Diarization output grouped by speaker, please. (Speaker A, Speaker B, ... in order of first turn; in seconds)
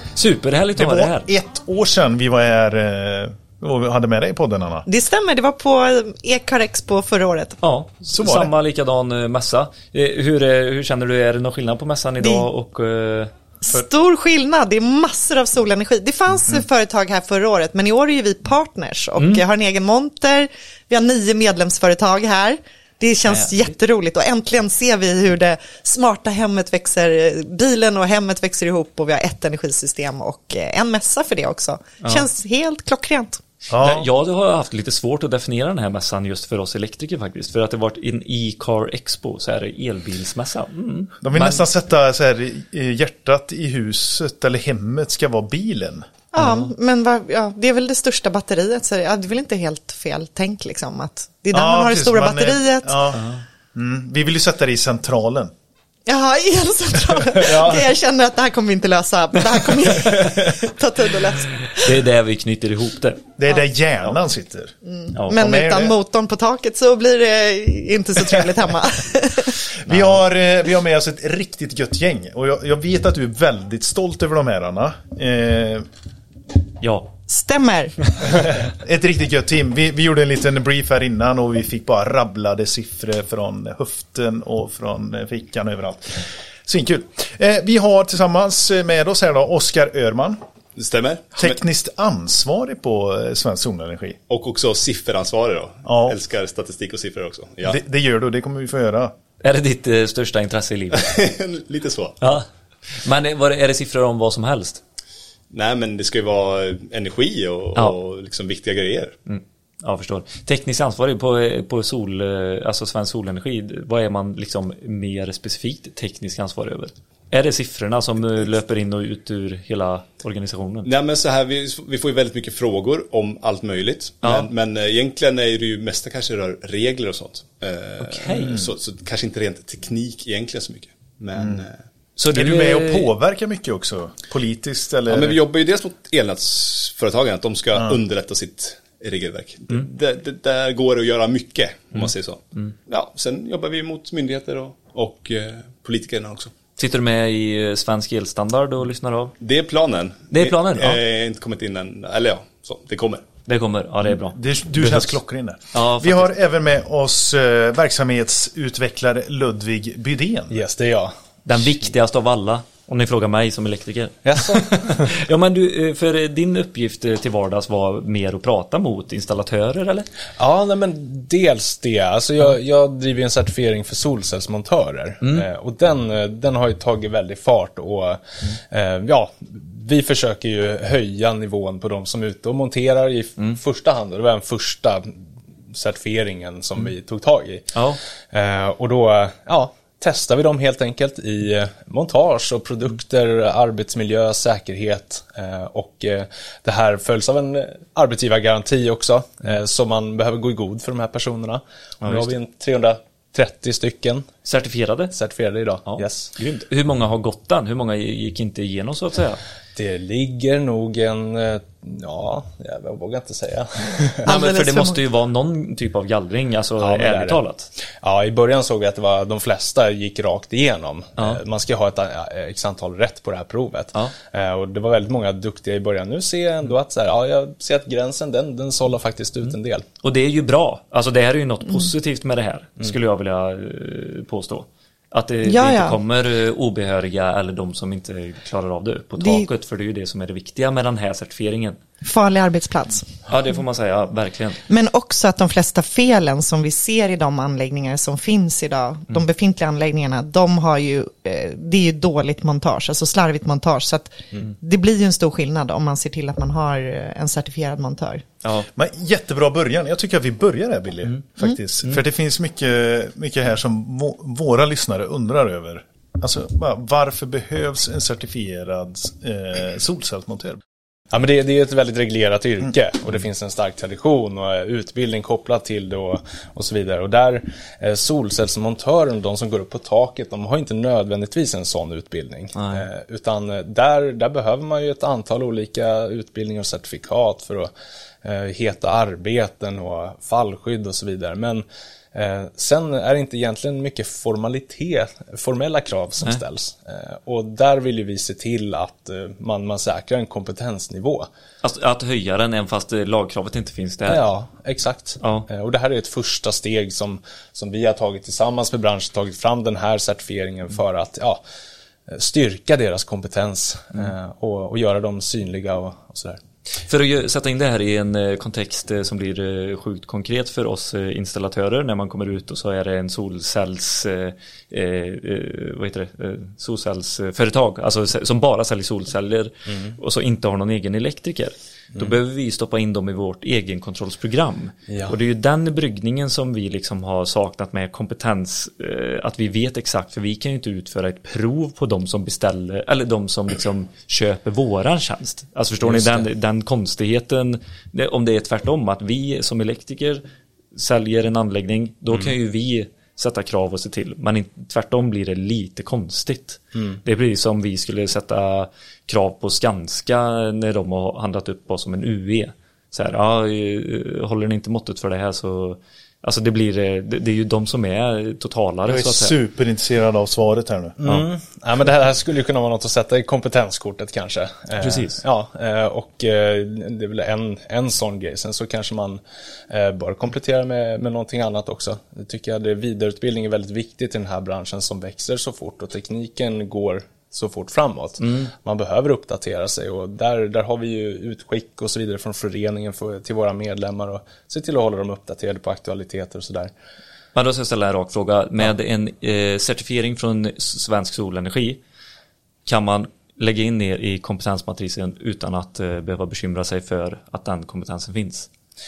Speaker A: 0.1-1.3, 7.6-13.3, 19.2-19.4, 23.2-23.6, 32.0-32.3, 33.7-41.6, 46.4-46.7, 53.1-53.4, 61.8-63.2, 65.1-65.4, 69.9-70.2, 76.8-77.1, 99.4-101.2, 102.2-104.8, 109.2-120.9, 124.2-124.5, 128.0-128.6, 132.2-133.1, 141.9-142.7, 146.8-149.3, 150.3-151.0, 153.4-155.2, 155.7-156.3, 161.4-170.1, 187.7-188.0, 202.0-202.3, 204.4-205.1, 205.8-209.4, 214.2-217.7, 230.0-241.8, 243.3-244.6, 282.6-282.9, 301.6-304.2, 305.2-305.5, 316.8-369.4, 374.8-375.2, 388.2-388.5, 397.3-401.8, 402.6-408.5
Speaker B: 0.8-4.8, 8.1-8.5, 33.7-34.1, 41.2-46.1, 51.5-55.5, 57.3-57.9, 63.4-64.8, 65.3-65.9, 69.8-75.9, 78.3-90.4, 91.3-94.2, 95.8-96.2, 97.6-99.2, 131.4-131.7, 132.3-135.4, 137.7-138.0, 154.3-160.6, 258.8-270.6, 368.9-371.0
Speaker C: 4.8-7.6, 12.2-12.5, 13.6-33.4, 46.3-53.0, 56.0-61.9, 64.8-69.6, 77.3-78.0, 214.2-215.0, 235.4-236.0, 239.2-239.5, 242.0-243.1, 244.7-258.2
Speaker D: 90.8-91.6, 94.3-97.8, 101.0-102.2, 105.5-109.2, 120.8-131.8, 135.1-146.5, 149.4-153.3
Speaker E: 160.5-161.6, 164.2-165.1, 170.4-204.3, 205.1-206.3, 209.7-214.3, 216.8-229.9, 271.1-287.7, 288.2-301.3, 304.1-311.4, 312.1-316.4, 329.7-329.9, 334.9-335.1, 345.8-346.3, 356.7-357.0, 371.0-396.7